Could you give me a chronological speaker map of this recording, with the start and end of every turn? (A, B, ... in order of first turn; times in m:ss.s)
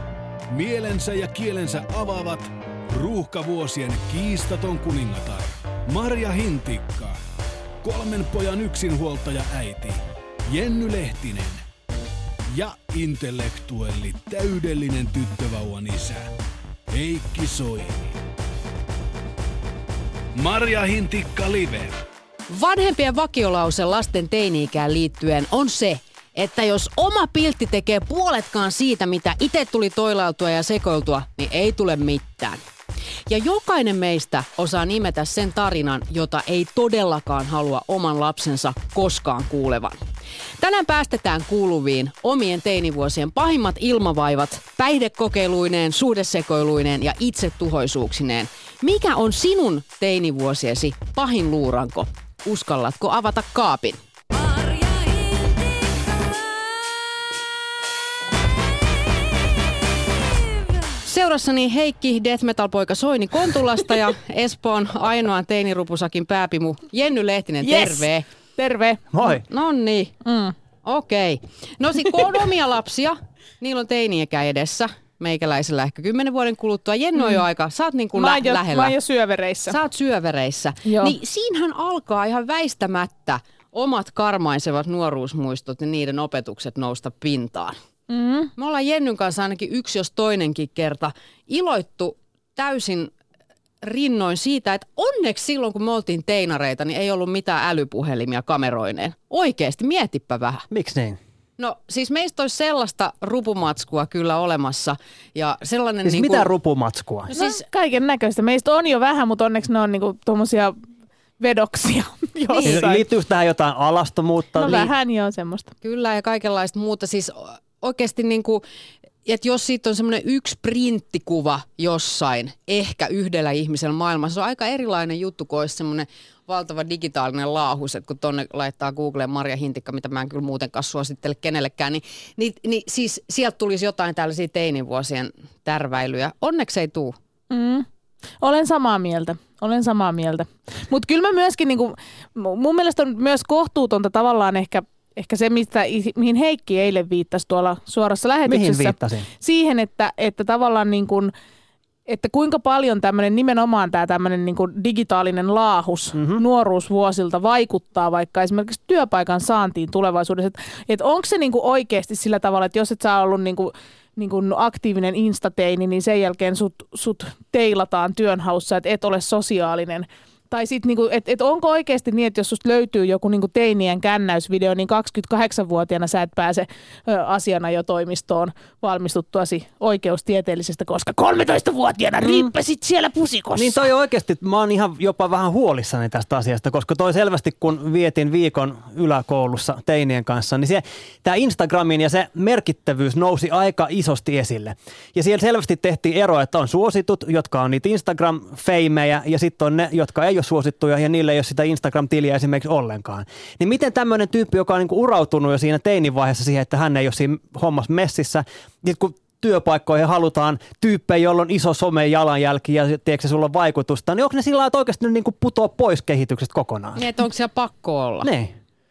0:00.5-0:07.2 A
0:07.8-0:11.6 A
0:12.5-0:16.3 A
0:16.9-0:18.2 A
0:20.3-0:22.0 A
0:22.5-0:32.6 B
0:33.3-0:40.0 B
0:40.6-0:54.0 B
1:01.0-1:08.2 B
1:07.6-1:09.0 C
1:09.1-1:09.4 D
1:09.4-1:10.1 B
1:10.2-1:10.5 C
1:10.8-1:19.0 B
1:18.1-1:19.8 C
1:19.7-1:27.8 B
1:20.8-1:21.2 C
1:28.1-1:28.5 C
1:28.6-1:33.1 B
1:33.8-1:40.6 B
1:40.7-1:41.2 D
1:41.6-1:46.5 B
1:46.0-1:47.3 D
1:47.3-1:47.6 B
1:47.3-1:50.8 C
1:51.4-1:53.0 C
1:52.6-1:54.9 D
1:54.6-1:55.7 C
1:55.8-1:58.6 B
1:59.2-2:17.2 B
2:17.5-2:17.8 C
2:18.4-2:31.3 C
2:28.4-2:29.3 D
2:32.1-3:03.8 C
2:36.1-2:36.4 D
3:02.2-3:02.5 D
3:03.5-3:37.0 D
3:37.0-3:38.3 B
3:38.2-3:38.5 D